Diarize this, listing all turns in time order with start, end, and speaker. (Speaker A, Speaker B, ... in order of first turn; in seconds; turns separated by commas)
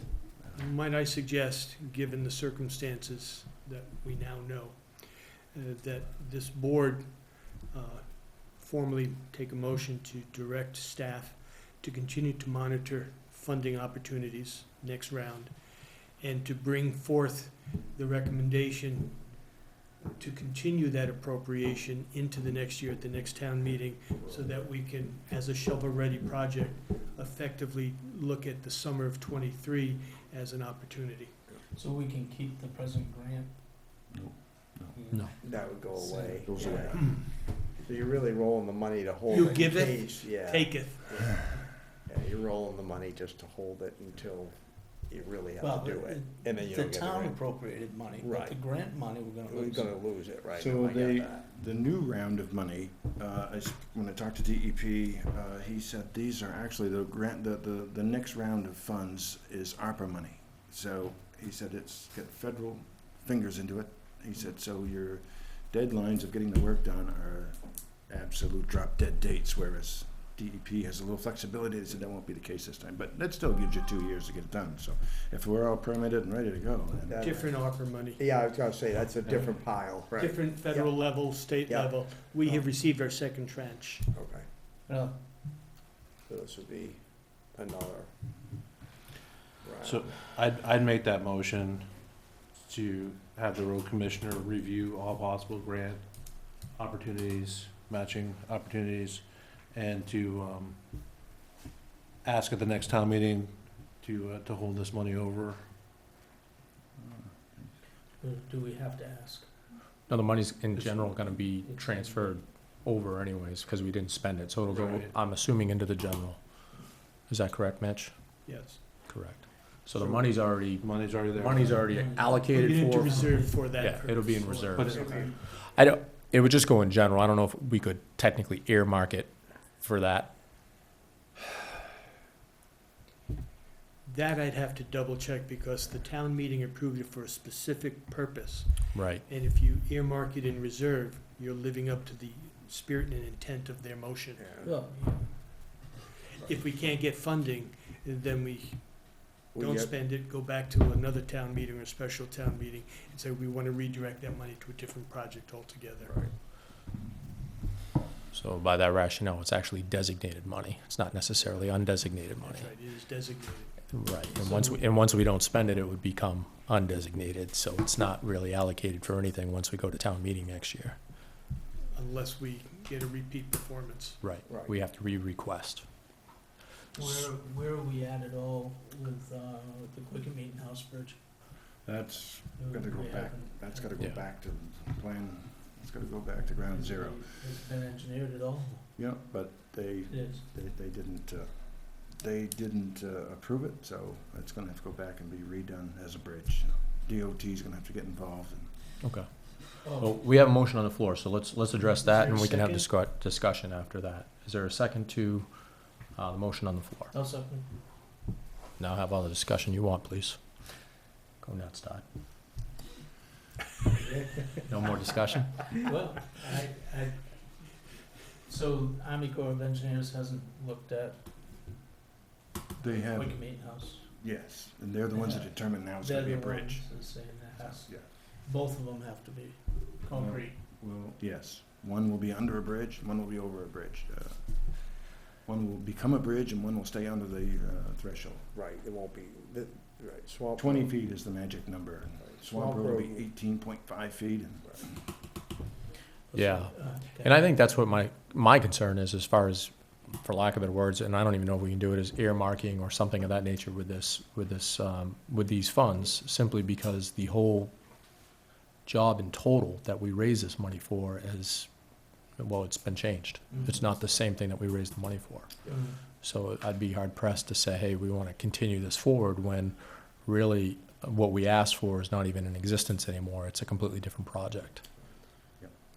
Speaker A: 0.5-19.6, Speaker A: 20.1-31.5, Speaker B: 31.7-33.7, Speaker C: 34.1-35.0, Speaker B: 34.9-36.9, Speaker D: 35.4-48.7, Speaker C: 36.4-37.2, Speaker A: 36.9-37.3, Speaker A: 39.3-41.7, Speaker B: 45.6-50.1, Speaker D: 49.4-51.5, Speaker C: 50.4-77.6, Speaker D: 77.1-82.8, Speaker A: 77.2-78.3, Speaker B: 79.3-79.6, Speaker B: 80.2-80.8, Speaker A: 80.2-84.1, Speaker D: 84.1-84.5, Speaker B: 84.9-85.3, Speaker D: 86.3-88.1, Speaker D: 89.6-90.1, Speaker E: 89.8-100.8, Speaker E: 102.2-105.7, Speaker C: 107.0-107.7, Speaker B: 108.2-110.1, Speaker F: 110.1-130.4, Speaker B: 111.5-112.4, Speaker E: 114.7-115.2, Speaker A: 118.5-119.5, Speaker E: 120.8-121.8, Speaker B: 121.5-123.8, Speaker A: 122.5-125.3, Speaker E: 124.8-125.1, Speaker D: 125.0-125.3, Speaker B: 125.0-125.4, Speaker A: 134.1-144.8, Speaker F: 138.9-139.2, Speaker D: 144.4-144.8, Speaker B: 144.6-145.6, Speaker D: 146.4-146.6, Speaker A: 146.4-156.2, Speaker D: 149.5-150.0, Speaker D: 156.0-156.3, Speaker F: 158.3-162.7, Speaker A: 162.4-165.0, Speaker F: 163.9-171.0, Speaker A: 171.9-174.2, Speaker F: 174.2-176.1, Speaker D: 174.5-174.8, Speaker B: 176.9-181.6, Speaker F: 177.0-177.3, Speaker C: 181.8-187.5, Speaker B: 182.6-184.1, Speaker B: 186.4-189.1, Speaker C: 189.0-198.9, Speaker B: 190.1-190.4, Speaker F: 199.0-207.1, Speaker B: 199.8-200.2, Speaker B: 201.8-202.1, Speaker A: 202.1-202.9, Speaker B: 207.1-207.8, Speaker F: 208.8-212.1, Speaker B: 213.9-221.8, Speaker F: 214.6-215.8, Speaker B: 222.8-224.2, Speaker C: 222.8-228.1, Speaker B: 225.1-230.6, Speaker C: 230.1-238.5, Speaker D: 238.5-241.0, Speaker C: 240.6-245.0, Speaker D: 242.2-243.3, Speaker B: 246.3-247.7, Speaker F: 246.3-257.8, Speaker F: 258.9-261.7, Speaker F: 262.4-274.9, Speaker B: 263.5-263.8, Speaker B: 265.7-266.0